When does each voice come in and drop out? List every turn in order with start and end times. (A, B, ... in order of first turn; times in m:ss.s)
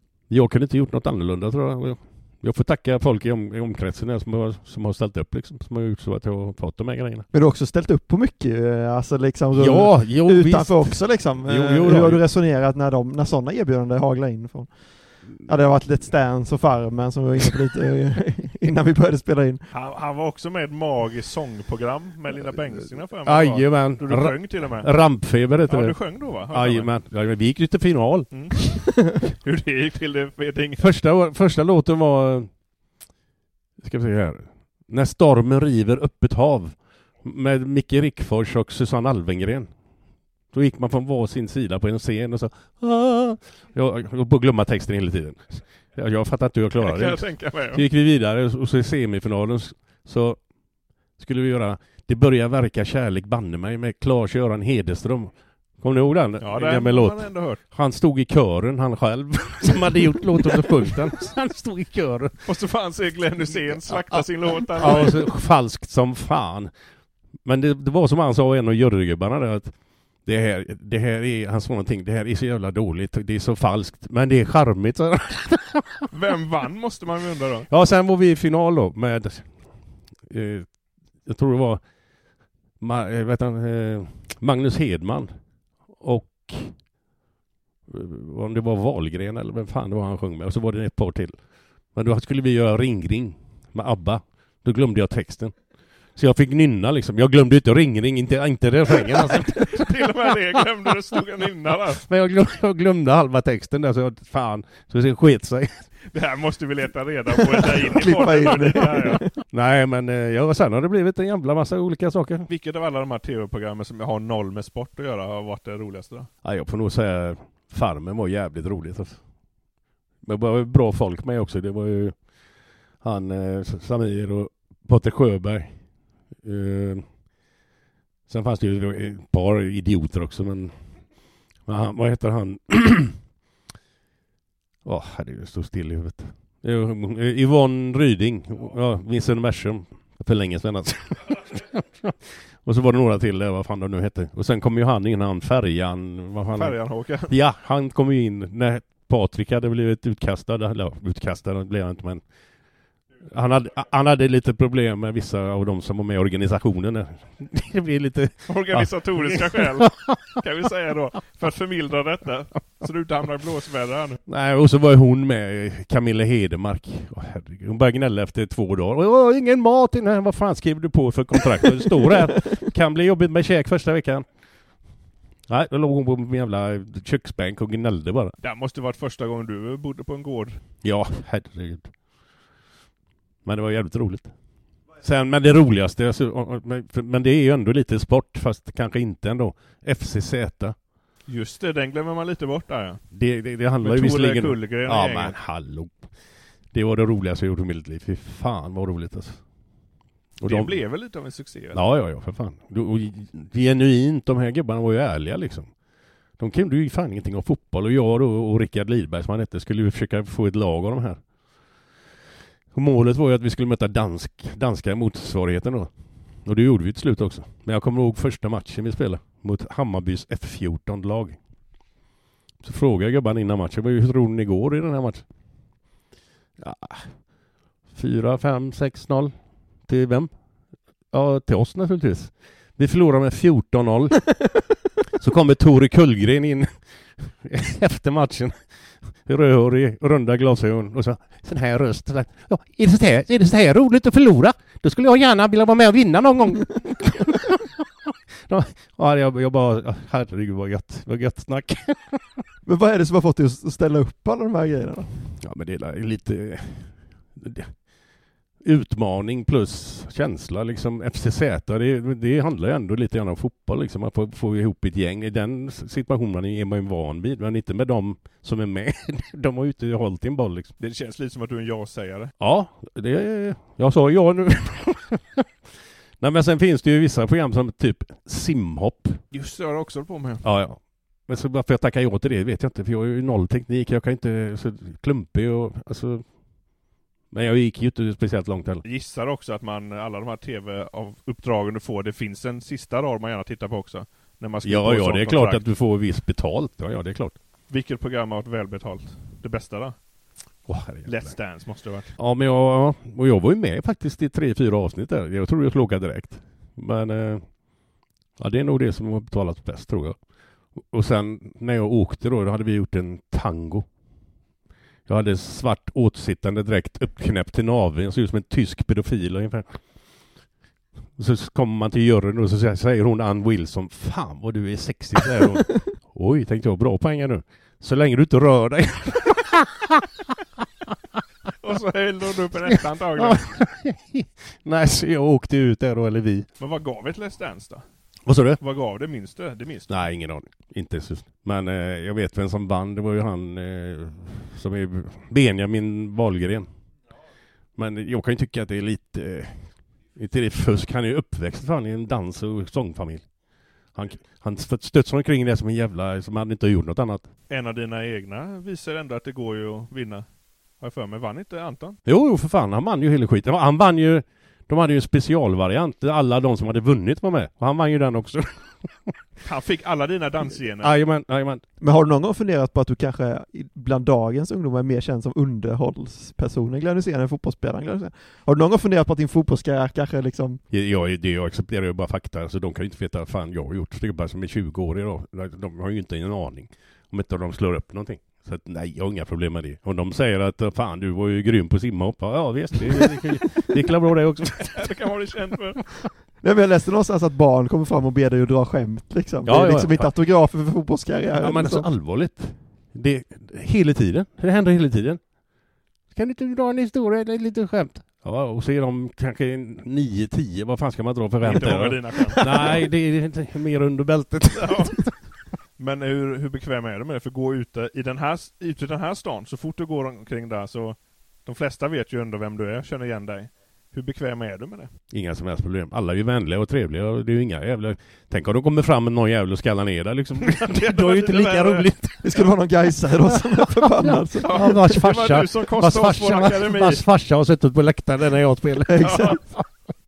0:00.3-0:07.2 A
0:07.3-0:19.6 B
0:09.5-0:12.3 A
0:19.7-0:26.9 C
0:23.2-0:28.5 A
0:28.3-0:30.9 C
0:30.8-0:32.5 A
0:33.8-0:39.7 A
0:40.5-0:50.4 A
0:46.8-0:47.8 C
0:51.2-1:02.5 A
0:56.4-0:57.6 C
1:02.4-1:05.2 C
1:03.7-1:06.7 A
1:07.4-1:16.0 A
1:16.1-1:17.7 C
1:17.7-1:21.9 A
1:22.8-1:25.3 A
1:26.0-1:26.8 A
1:27.9-1:31.4 A
1:31.9-1:35.6 A
1:36.1-1:40.6 A
1:39.2-1:42.0 C
1:41.9-1:45.9 A
1:46.1-1:49.2 C
1:47.9-1:49.3 B
1:48.5-1:48.8 A
1:49.4-1:52.5 A
1:52.5-1:56.3 C
1:56.4-1:59.2 A
2:00.2-2:02.3 A
2:03.0-2:05.8 A
2:06.4-2:07.1 A
2:08.3-2:10.9 A
2:11.6-2:13.2 A
2:14.8-2:32.2 A
2:26.6-2:27.3 C
2:33.2-2:40.4 A
2:38.5-2:44.2 C
2:44.2-2:54.3 A
2:55.5-2:58.3 A
2:58.4-3:00.6 C
3:00.8-3:01.9 A
3:03.4-3:04.3 A
3:05.0-3:10.8 A
3:11.3-3:13.0 C
3:13.1-3:16.1 A
3:13.8-3:15.4 C
3:16.7-3:19.4 A
3:20.4-3:20.8 A
3:20.4-3:21.8 C
3:21.7-3:25.7 A
3:26.4-3:31.2 A
3:32.7-3:41.4 A
3:42.6-3:45.2 A
3:46.6-3:47.2 A
3:47.9-3:49.3 A
3:49.8-3:50.3 A
3:51.1-3:54.5 A
3:55.2-3:58.6 A
3:59.2-4:12.4 A
4:12.6-4:15.1 B
4:15.4-4:17.8 A
4:18.6-4:30.7 A
4:30.8-4:32.3 C
4:32.4-4:35.4 A
4:36.2-4:39.2 A
4:39.3-4:40.4 C
4:40.4-4:46.3 A
4:47.3-4:48.8 A
4:48.8-4:55.6 C
4:54.6-4:57.4 A
4:57.7-4:59.9 C
5:00.6-5:01.3 A
5:01.0-5:02.1 C
5:02.2-5:07.5 A
5:08.4-5:10.2 A
5:10.8-5:13.8 A
5:15.1-5:19.8 A
5:21.2-5:30.2 A
5:31.6-5:33.6 C
5:32.7-5:36.5 A
5:36.6-5:37.8 C
5:38.2-5:38.6 A
5:38.6-5:40.0 C
5:39.9-5:46.7 A
5:47.8-5:53.3 A
5:53.9-5:57.3 A
5:57.5-6:00.3 C
6:00.8-6:02.0 C
6:02.0-6:09.2 A
6:09.4-6:11.0 C
6:10.8-6:11.6 A
6:11.8-6:20.6 B
6:20.7-6:35.0 A
6:34.7-6:35.8 C
6:36.4-6:41.9 B
6:39.4-6:40.1 A
6:41.4-6:45.2 A
6:46.1-6:55.1 A
6:51.4-6:52.8 C
6:54.6-6:55.1 C
6:55.8-7:04.9 C
7:05.1-7:12.5 A
7:10.4-7:11.9 C
7:12.2-7:14.5 B
7:13.2-7:19.6 A
7:14.4-7:17.0 C
7:18.9-7:19.4 B
7:19.0-7:19.4 C